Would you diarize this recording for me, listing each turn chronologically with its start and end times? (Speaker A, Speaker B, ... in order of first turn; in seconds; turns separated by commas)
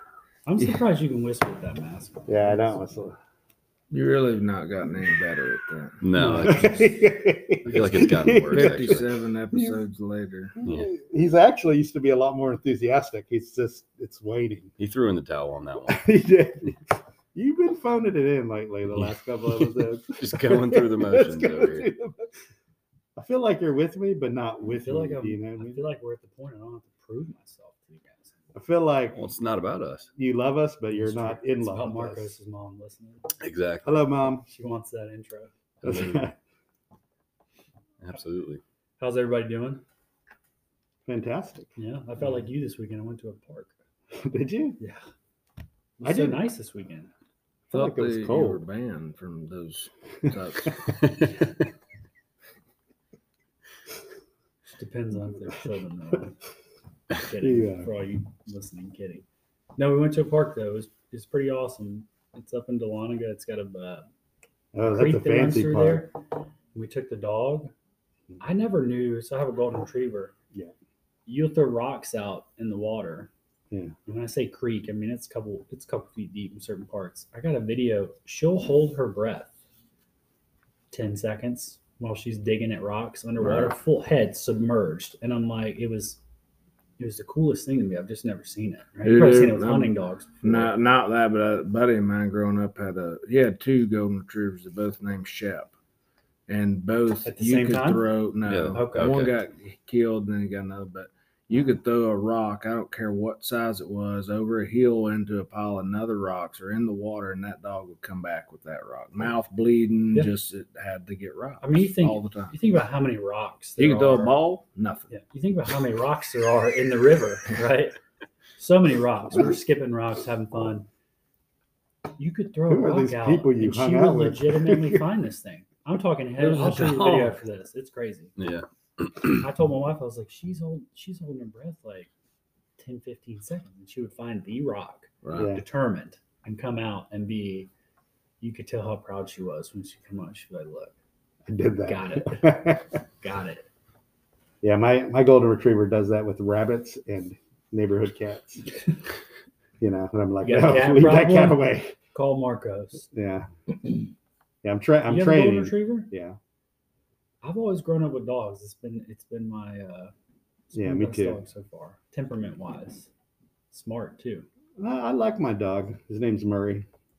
Speaker A: 0.5-2.8, Speaker B: 2.3-3.2, Speaker C: 3.9-6.0, Speaker D: 6.0-6.9, Speaker A: 6.1-6.8, Speaker B: 6.3-9.8, Speaker D: 7.7-9.1, Speaker C: 8.5-10.6, Speaker B: 10.6-14.7, Speaker D: 10.6-10.9, Speaker D: 14.8-16.1, Speaker B: 15.9-22.4, Speaker D: 18.9-19.2, Speaker D: 20.2-21.9, Speaker B: 23.2-25.9, Speaker A: 24.8-28.3, Speaker B: 28.5-29.2, Speaker D: 29.1-30.1, Speaker B: 30.2-32.4, Speaker A: 30.9-33.3, Speaker D: 33.4-34.0, Speaker B: 33.8-34.5, Speaker A: 34.4-35.5, Speaker D: 35.8-36.3, Speaker B: 35.8-36.4, Speaker D: 38.0-38.6, Speaker A: 39.0-39.8, Speaker B: 41.1-41.7, Speaker A: 41.8-43.7, Speaker B: 44.1-44.8, Speaker A: 46.0-47.1, Speaker B: 46.0-46.5, Speaker B: 47.7-48.6, Speaker C: 47.7-50.9, Speaker D: 50.9-51.5, Speaker A: 54.8-56.4, Speaker A: 57.2-59.2, Speaker B: 57.4-57.9, Speaker A: 59.8-64.1, Speaker B: 64.7-66.1, Speaker A: 64.9-66.2, Speaker A: 66.7-67.7, Speaker A: 68.4-70.3, Speaker A: 71.3-73.3, Speaker A: 74.1-79.5, Speaker A: 80.9-86.2, Speaker A: 87.0-90.7, Speaker C: 89.0-95.7, Speaker C: 96.5-112.6, Speaker A: 97.2-98.1, Speaker D: 98.5-99.3, Speaker A: 98.7-99.2, Speaker A: 111.6-114.3, Speaker C: 113.8-115.1, Speaker A: 115.1-118.0, Speaker A: 118.6-120.9, Speaker A: 122.2-128.3, Speaker B: 122.7-125.1, Speaker C: 126.4-127.4, Speaker D: 128.4-129.4, Speaker A: 129.3-132.1, Speaker A: 132.8-137.7, Speaker C: 135.2-135.5, Speaker B: 135.4-135.7, Speaker A: 138.4-140.9, Speaker B: 141.5-143.0, Speaker A: 141.8-143.7, Speaker B: 144.6-148.7, Speaker B: 149.8-151.9, Speaker A: 150.4-153.1, Speaker B: 153.1-153.9, Speaker B: 154.6-156.4, Speaker A: 155.1-156.1, Speaker A: 157.4-160.1, Speaker A: 160.7-163.1, Speaker B: 160.7-161.4, Speaker A: 163.7-164.5, Speaker B: 164.8-166.9